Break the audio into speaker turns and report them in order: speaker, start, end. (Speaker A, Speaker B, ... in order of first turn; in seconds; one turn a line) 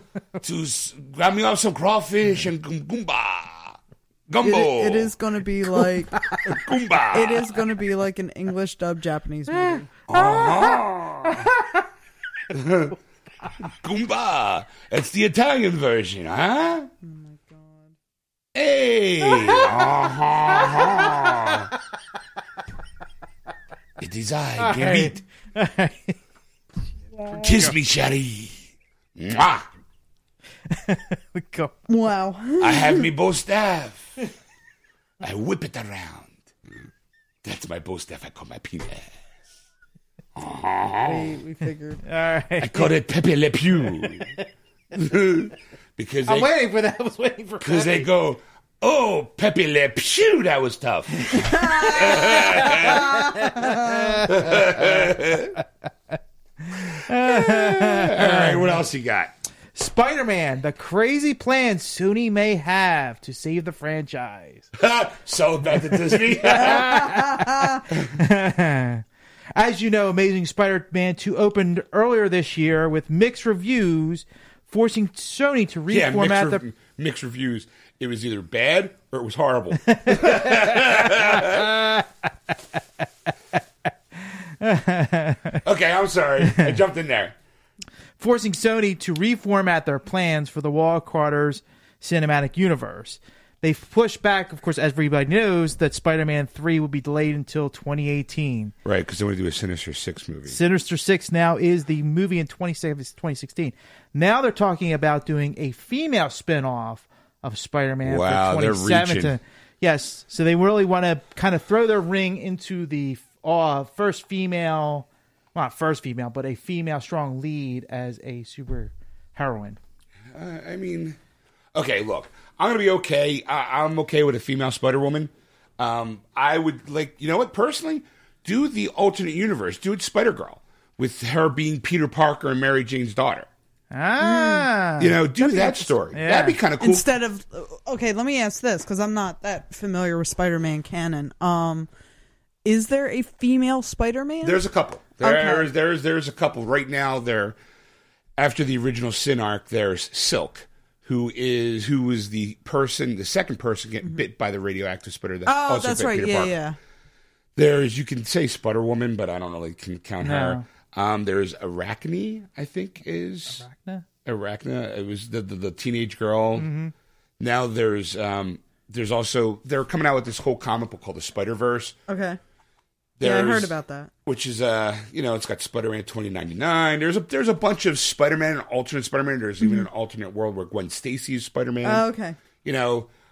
Speaker A: 0.4-5.1
Speaker B: 4.4-6.4
Speaker A: 6.4-7.6
Speaker B: 7.1-10.7
Speaker C: 9.5-10.2
Speaker A: 10.1-11.5
Speaker C: 11.3-11.8
Speaker A: 12.5-13.0
Speaker A: 13.6-16.9
Speaker B: 17.0-17.9
Speaker A: 18.5-21.7
Speaker C: 20.6-21.6
Speaker A: 24.0-25.2
Speaker C: 24.6-26.2
Speaker B: 27.1-27.6
Speaker C: 27.3-27.7
Speaker A: 27.4-28.6
Speaker A: 29.1-29.7
Speaker C: 30.7-31.7
Speaker B: 31.9-33.1
Speaker A: 32.6-34.2
Speaker A: 35.2-36.5
Speaker A: 37.4-39.2
Speaker A: 40.3-41.4
Speaker B: 41.0-42.0
Speaker C: 42.0-42.9
Speaker A: 42.6-44.3
Speaker C: 44.0-44.4
Speaker A: 44.9-46.5
Speaker C: 46.2-48.1
Speaker A: 47.6-53.2
Speaker B: 51.4-53.9
Speaker C: 51.9-55.1
Speaker A: 54.2-55.6
Speaker C: 56.7-58.8
Speaker A: 56.8-59.3
Speaker C: 59.7-64.7
Speaker A: 64.7-68.2
Speaker C: 66.5-67.2
Speaker B: 66.7-67.8
Speaker C: 68.1-69.0
Speaker C: 69.5-76.6
Speaker A: 75.9-81.8
Speaker C: 79.9-82.1
Speaker C: 84.3-85.6
Speaker A: 85.6-87.3
Speaker C: 86.5-86.7
Speaker C: 88.2-98.7
Speaker A: 98.8-100.6
Speaker C: 100.5-119.8
Speaker A: 108.0-109.4
Speaker A: 120.3-121.2
Speaker A: 121.7-133.5
Speaker C: 133.9-136.6
Speaker B: 134.2-134.7
Speaker A: 135.0-137.1
Speaker B: 136.8-141.9
Speaker B: 142.6-144.6
Speaker A: 144.4-147.6
Speaker B: 145.2-145.7
Speaker A: 148.4-156.5
Speaker B: 155.4-156.8
Speaker A: 157.6-163.6
Speaker C: 160.2-160.6
Speaker C: 163.5-164.1
Speaker A: 164.2-166.7
Speaker C: 166.6-166.9
Speaker A: 167.4-171.9
Speaker B: 172.1-172.4
Speaker A: 173.2-173.7
Speaker B: 173.2-174.1
Speaker A: 174.2-182.0
Speaker B: 181.8-182.4
Speaker A: 182.6-183.1